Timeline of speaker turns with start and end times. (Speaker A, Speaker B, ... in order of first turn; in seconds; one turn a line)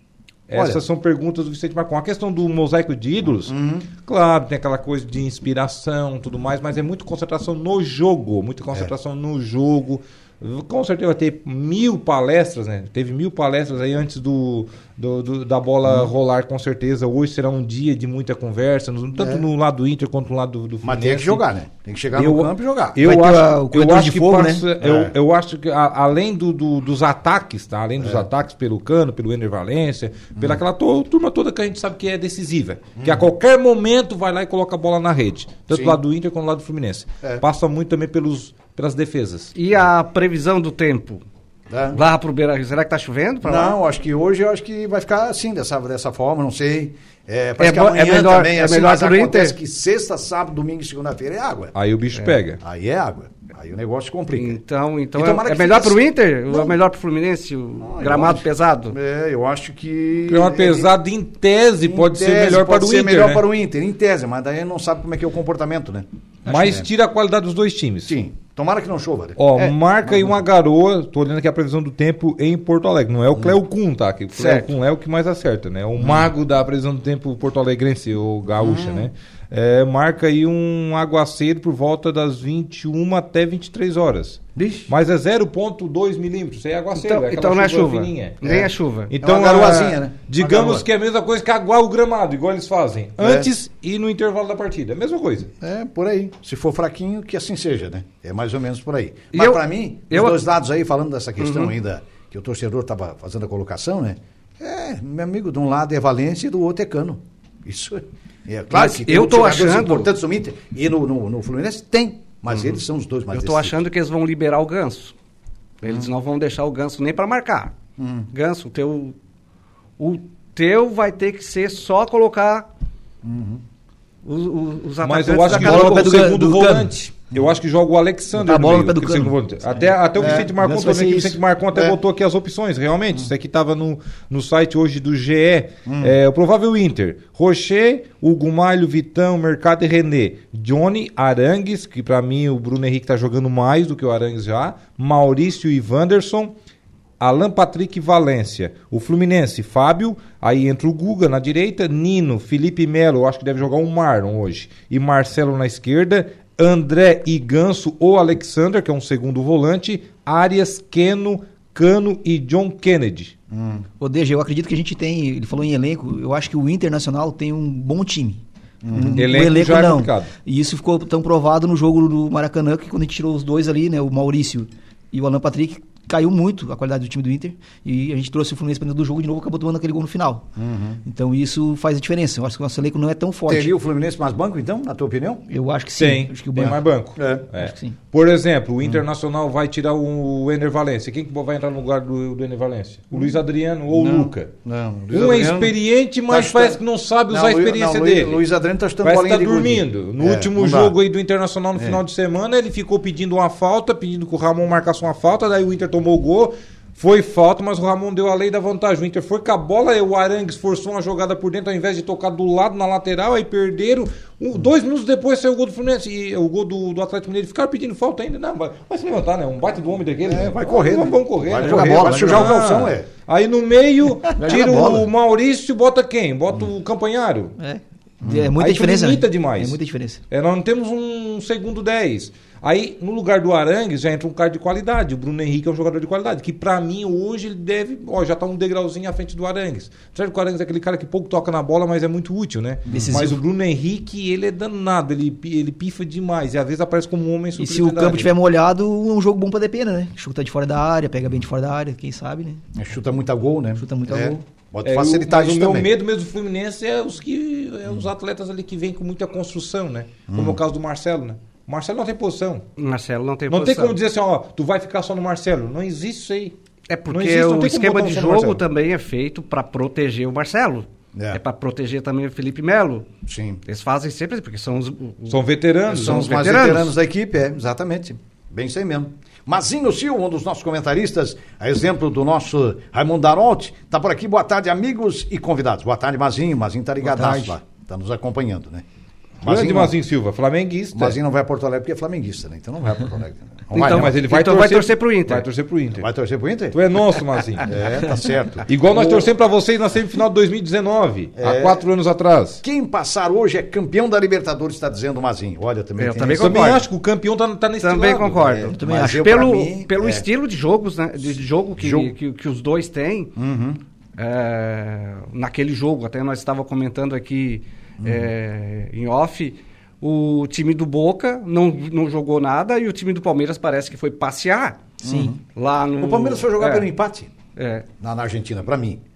Speaker A: 0.5-21.4
Speaker B: 0.5-0.8
Speaker B: 3.5-3.9
Speaker B: 19.1-19.4
Speaker B: 20.8-23.0
Speaker A: 22.1-39.5
Speaker C: 23.0-24.6
Speaker B: 24.8-25.1
Speaker B: 28.0-28.2
Speaker B: 33.0-33.3
Speaker B: 35.7-36.0
Speaker D: 39.5-41.2
Speaker B: 41.7-42.0
Speaker D: 41.9-43.8
Speaker B: 43.4-51.7
Speaker D: 47.6-49.5
Speaker A: 51.7-52.6
Speaker B: 52.6-54.6
Speaker D: 54.3-59.0
Speaker B: 55.1-56.7
Speaker B: 57.8-60.9
Speaker A: 60.3-63.4
Speaker B: 61.8-66.9
Speaker A: 66.4-68.2
Speaker B: 68.0-69.4
Speaker A: 69.4-88.4
Speaker D: 74.3-74.7
Speaker B: 76.0-76.3
Speaker B: 78.6-79.1
Speaker B: 84.5-84.9
Speaker D: 87.0-89.1
Speaker B: 88.4-88.7
Speaker A: 89.1-95.5
Speaker B: 89.2-90.8
Speaker B: 93.2-93.5
Speaker B: 95.6-113.8
Speaker D: 99.3-100.4
Speaker D: 101.4-101.7
Speaker D: 108.7-110.1
Speaker D: 113.3-115.1
Speaker D: 115.8-117.7
Speaker B: 118.0-118.3
Speaker D: 118.3-119.2
Speaker D: 120.0-122.7
Speaker B: 123.2-123.6
Speaker D: 124.2-126.2
Speaker A: 125.0-146.5
Speaker C: 125.4-126.9
Speaker C: 128.3-131.4
Speaker B: 130.2-130.5
Speaker B: 135.8-136.2
Speaker A: 147.2-163.3
Speaker B: 163.5-163.8
Speaker C: 164.0-180.4
Speaker B: 168.8-169.2
Speaker A: 169.2-170.3
Speaker B: 180.6-181.0
Speaker C: 181.0-183.7
Speaker B: 183.5-185.4
Speaker C: 185.5-186.8
Speaker A: 186.0-194.5
Speaker B: 187.2-187.5
Speaker C: 187.5-187.9
Speaker B: 193.9-195.7
Speaker A: 195.1-198.4
Speaker B: 196.3-200.9
Speaker A: 199.0-227.5
Speaker B: 201.7-202.0
Speaker B: 220.2-223.1
Speaker C: 221.6-222.6
Speaker C: 224.4-225.1
Speaker C: 227.6-230.2
Speaker B: 228.2-228.5
Speaker A: 228.6-229.8
Speaker A: 230.3-248.3
Speaker C: 242.9-243.4
Speaker B: 242.9-243.2
Speaker C: 247.6-252.6
Speaker B: 252.7-255.9
Speaker C: 253.8-254.4
Speaker A: 254.8-262.6
Speaker B: 260.3-260.6
Speaker D: 262.8-263.9
Speaker A: 263.5-266.6
Speaker D: 266.9-273.1
Speaker A: 267.1-268.6
Speaker B: 271.1-271.4
Speaker B: 273.2-273.6
Speaker D: 273.6-276.9
Speaker A: 275.3-276.4
Speaker B: 275.9-288.8
Speaker C: 287.0-287.5
Speaker B: 289.4-289.9
Speaker A: 289.4-291.2
Speaker B: 290.9-294.2
Speaker D: 293.7-295.4
Speaker A: 293.7-296.1
Speaker B: 295.9-296.8
Speaker A: 296.7-297.7
Speaker B: 297.6-299.2
Speaker A: 298.7-302.6
Speaker B: 301.4-301.9
Speaker B: 302.6-306.8
Speaker D: 306.0-306.8
Speaker A: 306.3-308.6
Speaker D: 307.8-313.3
Speaker B: 308.4-310.2
Speaker C: 308.7-309.4
Speaker B: 311.8-312.1
Speaker B: 313.4-313.8
Speaker D: 314.2-324.9
Speaker B: 318.0-318.3
Speaker B: 325.0-325.4
Speaker C: 325.0-325.3
Speaker D: 325.5-326.9
Speaker B: 326.0-327.3
Speaker D: 327.6-327.9
Speaker B: 328.0-329.0